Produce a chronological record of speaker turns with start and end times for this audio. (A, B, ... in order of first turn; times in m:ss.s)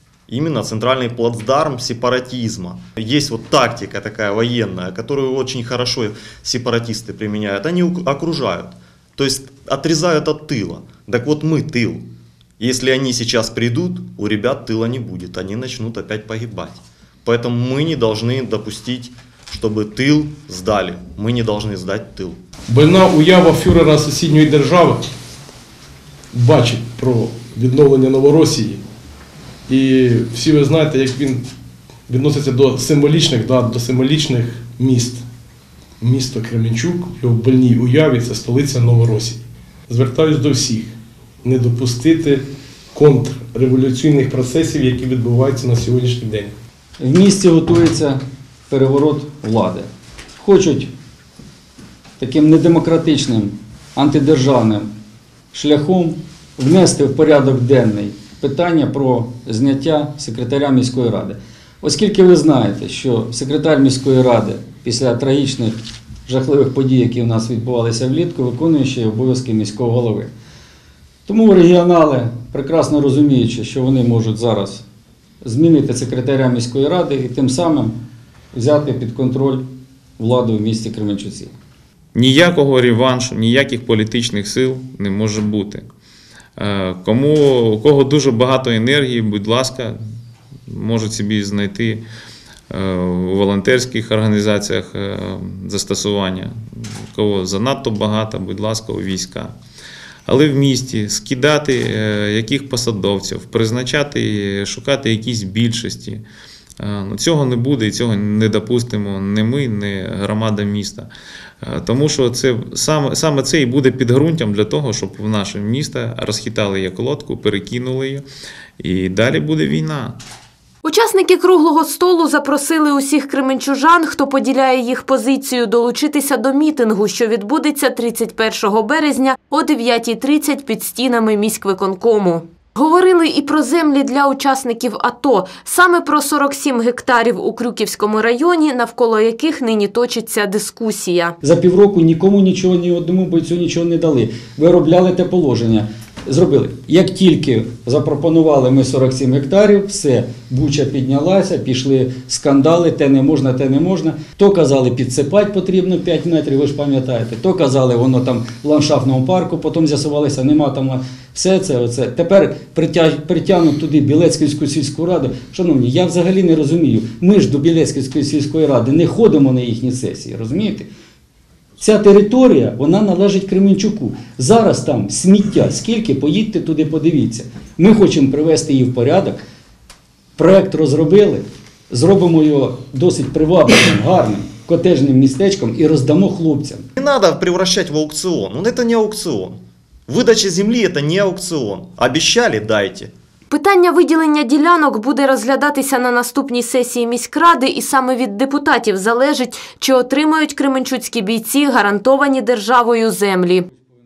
0:00.3-0:22.4 A
0:22.7-0:25.1 B
0:26.3-0:28.8 B
0:29.7-0:31.5 B
0:32.1-0:35.2 B
0:36.0-0:46.6 B
0:47.0-0:49.9 C
0:50.4-0:50.9 C
0:52.2-0:54.9 C
0:55.5-1:10.3 C
1:11.3-1:14.8 C
1:15.4-1:18.0 C
1:18.5-1:21.5 C
1:22.2-1:25.8 D
1:26.6-1:30.0 D
1:30.7-1:32.0 D
1:32.7-1:36.5 D
1:37.1-1:39.5 D
1:40.3-1:46.2 D
1:46.8-1:51.1 D
1:51.6-1:58.2 D
1:58.8-2:00.2 D
2:00.8-2:21.4 E
2:21.4-2:50.9 C
2:51.8-2:59.4 C
3:00.4-3:06.9 C
3:07.0-3:13.1 A
3:13.5-3:23.7 E